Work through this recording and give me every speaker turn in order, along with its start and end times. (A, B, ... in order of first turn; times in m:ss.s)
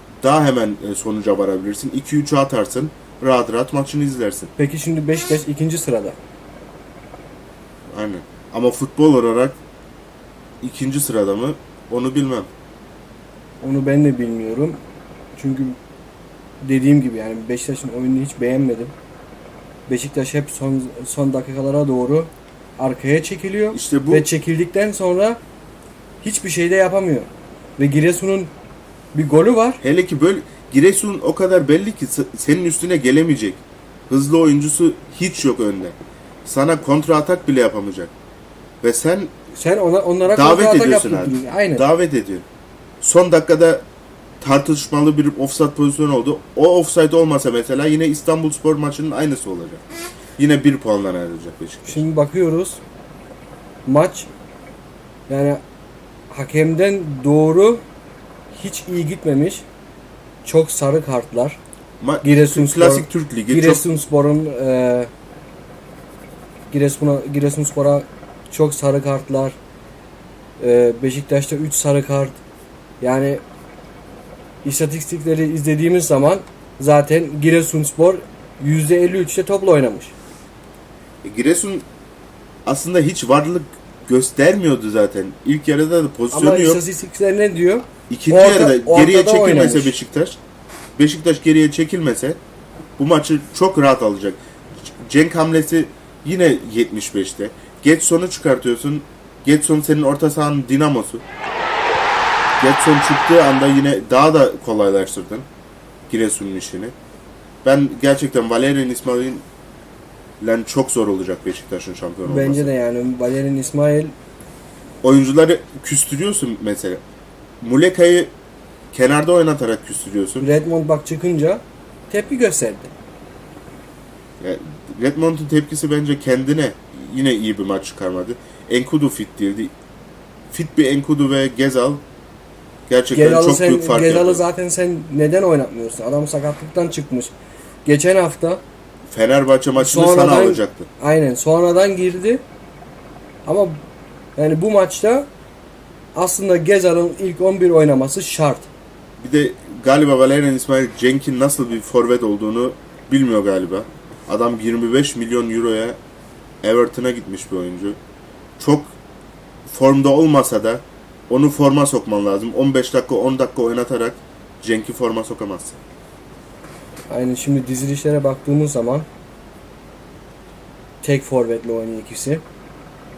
0:00.2-0:04.5 A
0:04.6-0:06.2 B
0:07.9-0:09.6 A
0:10.6-0:12.5 A
0:13.6-0:14.8 B
0:15.3-0:15.8 B
0:16.6-0:18.9 B
0:19.9-0:25.4 B
0:23.7-0:24.3 A
0:26.2-0:28.5 B
0:29.1-0:29.8 B
0:29.8-0:38.1 A
0:38.8-0:39.3 A
0:39.5-0:41.9 B
0:40.2-0:42.4 A
0:43.0-0:43.8 A
0:44.4-0:49.8 A
0:50.4-0:52.0 A
0:51.8-0:52.8 B
0:53.8-0:54.3 B
0:55.3-0:55.6 B
0:56.3-0:57.8 B
0:58.5-0:59.6 B
1:00.4-1:01.6 B
1:02.0-1:03.8 A
1:02.2-1:05.1 B
1:06.7-1:09.6 B
1:10.6-1:12.4 B
1:13.0-1:13.4 B
1:14.6-1:20.1 B
1:21.2-1:21.8 A
1:22.6-1:26.8 A
1:26.3-1:30.0 B
1:28.1-1:30.4 A
1:31.0-1:32.4 A
1:33.0-1:41.2 A
1:42.6-1:45.5 A
1:46.1-1:46.9 A
1:47.6-1:49.4 A
1:50.4-1:52.7 A
1:52.2-1:54.1 B
1:55.0-1:57.0 A
1:57.6-1:58.3 A
1:58.9-2:00.5 A
2:00.4-2:02.9 B
2:04.4-2:09.7 A
2:10.5-2:12.0 A
2:12.9-2:14.4 A
2:13.1-2:17.3 B
2:17.8-2:18.6 B
2:19.1-2:20.9 A
2:19.8-2:22.4 B
2:23.4-2:23.8 B
2:24.4-2:25.3 B
2:26.1-2:28.7 B
2:29.2-2:36.0 A
2:36.6-2:38.0 A
2:38.6-2:38.9 A
2:39.7-2:45.8 A
2:47.1-2:49.0 B
2:51.0-2:52.4 B